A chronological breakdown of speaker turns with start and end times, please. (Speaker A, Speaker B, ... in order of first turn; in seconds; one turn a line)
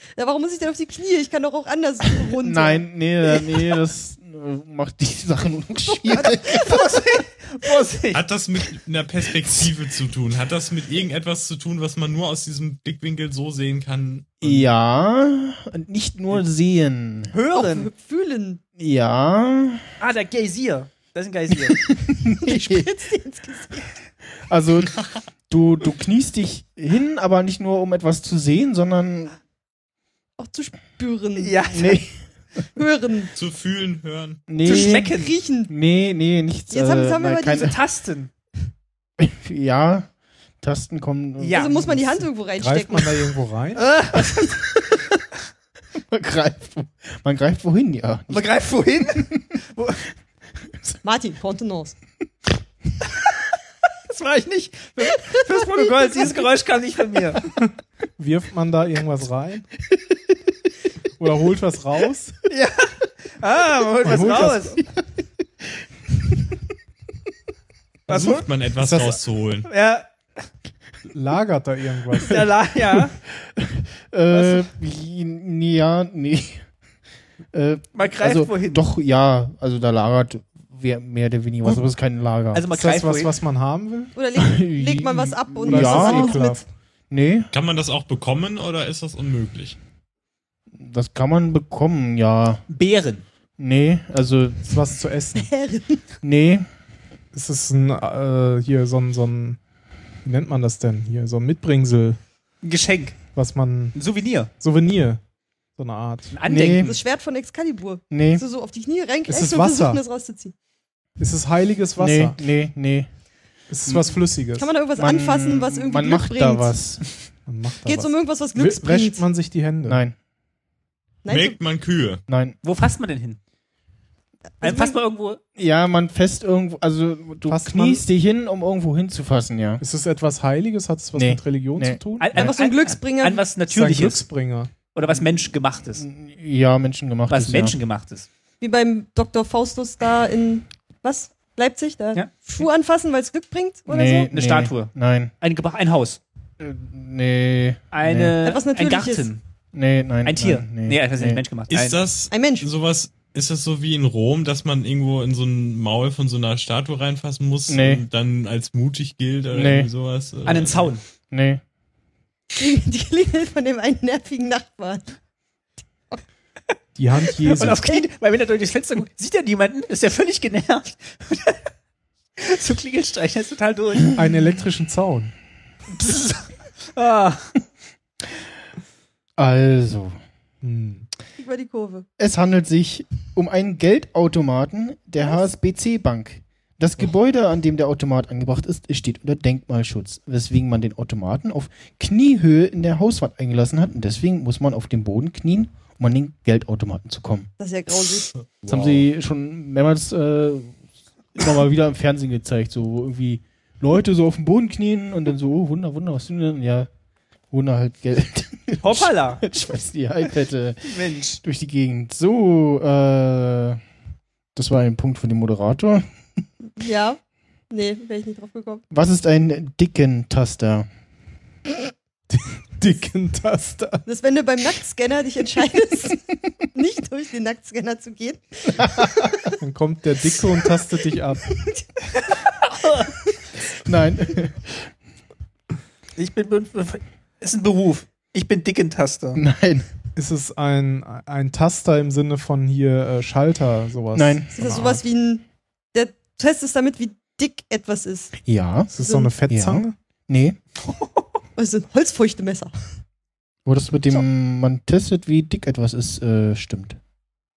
Speaker A: 0.2-2.8
Speaker B: 2.4-7.0
Speaker A: 5.9-6.8
Speaker C: 6.5-8.2
Speaker D: 8.1-14.7
Speaker B: 14.4-17.3
Speaker C: 17.3-17.9
Speaker A: 17.5-18.6
Speaker B: 18.8-19.9
Speaker C: 20.0-21.8
Speaker B: 21.7-22.9
Speaker A: 22.3-23.8
Speaker B: 24.5-24.9
Speaker B: 25.5-29.4
Speaker A: 30.4-31.5
Speaker C: 31.4-32.0
Speaker B: 31.7-32.2
Speaker A: 32.8-33.3
Speaker D: 33.4-34.4
Speaker B: 34.5-35.2
Speaker C: 34.6-35.3
Speaker A: 34.6-35.7
Speaker B: 35.7-37.8
Speaker A: 36.7-37.7
Speaker C: 37.5-38.3
Speaker B: 39.2-40.1
Speaker B: 40.6-42.3
Speaker C: 41.4-41.7
Speaker A: 41.5-43.3
Speaker E: 42.6-43.9
Speaker C: 43.8-44.6
Speaker B: 44.4-45.0
Speaker B: 46.1-48.5
Speaker C: 48.3-50.0
Speaker A: 51.0-52.0
Speaker C: 54.1-57.4
Speaker E: 57.6-59.7
Speaker E: 61.2-62.4
Speaker C: 62.5-64.8
Speaker E: 64.0-64.8
Speaker C: 68.1-68.5
Speaker D: 68.1-69.7
Speaker E: 68.8-69.2
Speaker C: 69.7-70.1
Speaker E: 71.1-72.5
Speaker C: 72.2-73.2
Speaker B: 73.3-76.7
Speaker C: 74.3-74.6
Speaker B: 77.5-82.7
Speaker C: 78.0-78.9
Speaker C: 82.5-83.3
Speaker E: 82.7-84.1
Speaker A: 84.2-86.6
Speaker B: 84.4-86.4
Speaker E: 85.7-86.7
Speaker B: 87.1-87.5
Speaker D: 87.5-89.8
Speaker B: 90.8-92.6
Speaker C: 92.7-93.2
Speaker B: 93.6-94.8
Speaker E: 94.7-95.5
Speaker A: 95.4-96.0
Speaker B: 96.2-96.7
Speaker E: 97.3-99.6
Speaker E: 100.2-102.2
Speaker C: 102.6-103.2
Speaker E: 103.3-104.0
Speaker C: 103.9-104.5
Speaker E: 104.6-105.2
Speaker E: 105.8-106.4
Speaker C: 106.3-107.0
Speaker B: 106.5-107.0
Speaker A: 106.8-110.5
Speaker B: 108.1-108.4
Speaker E: 109.3-110.0
Speaker E: 111.2-112.4
Speaker B: 112.0-113.1
Speaker E: 113.7-114.7
Speaker B: 113.9-114.2
Speaker A: 114.6-116.8
Speaker B: 115.0-117.0
Speaker E: 117.5-120.0
Speaker A: 117.8-119.3
Speaker B: 119.9-120.1
Speaker A: 121.2-121.6
Speaker D: 121.3-122.2
Speaker B: 122.3-122.6
Speaker C: 122.6-123.4
Speaker A: 124.6-125.0
Speaker C: 124.6-125.4
Speaker B: 125.6-129.8
Speaker E: 127.5-128.1
Speaker E: 129.8-132.5
Speaker B: 131.2-132.0
Speaker C: 132.2-134.2
Speaker A: 132.3-133.4
Speaker E: 133.7-134.7
Speaker C: 134.9-136.1
Speaker B: 135.9-137.8
Speaker C: 137.3-138.3
Speaker A: 138.6-144.3
Speaker C: 142.2-142.5
Speaker B: 143.9-145.3
Speaker C: 144.3-146.2
Speaker B: 146.6-148.4
Speaker C: 147.9-149.4
Speaker A: 148.4-149.3
Speaker B: 149.7-151.4
Speaker C: 150.2-152.0
Speaker D: 151.7-160.9
Speaker A: 152.3-152.7
Speaker B: 157.7-158.0
Speaker B: 159.5-159.9
Speaker C: 160.5-161.0
Speaker B: 161.3-161.6
Speaker A: 162.6-165.2
Speaker E: 167.0-167.8
Speaker C: 167.4-171.6
Speaker C: 172.4-174.1
Speaker E: 174.1-175.3
Speaker C: 176.0-177.5
Speaker B: 179.4-180.2
Speaker E: 180.6-181.1
Speaker A: 181.4-182.1
Speaker B: 182.2-197.5
Speaker A: 197.6-198.3
Speaker D: 198.6-199.1
Speaker B: 198.7-200.8
Speaker B: 201.3-206.9
Speaker B: 207.5-213.8
Speaker C: 208.8-209.4
Speaker C: 210.8-211.4
Speaker B: 214.6-216.1
Speaker A: 216.8-217.2
Speaker A: 217.7-218.8
Speaker B: 218.9-220.9
Speaker E: 222.3-224.1
Speaker A: 224.1-226.2
Speaker A: 226.7-229.5
Speaker B: 228.8-229.3
Speaker E: 229.6-231.5
Speaker A: 231.6-231.8
Speaker C: 232.2-233.1
Speaker B: 233.8-234.9
Speaker C: 236.2-239.4
Speaker B: 239.3-239.9
Speaker E: 240.2-245.0
Speaker B: 244.1-244.5
Speaker A: 244.5-248.3
Speaker B: 248.4-248.9
Speaker E: 248.9-249.9
Speaker A: 249.0-249.3
Speaker B: 249.5-250.6
Speaker C: 250.9-251.2
Speaker A: 251.6-252.7
Speaker B: 253.7-257.0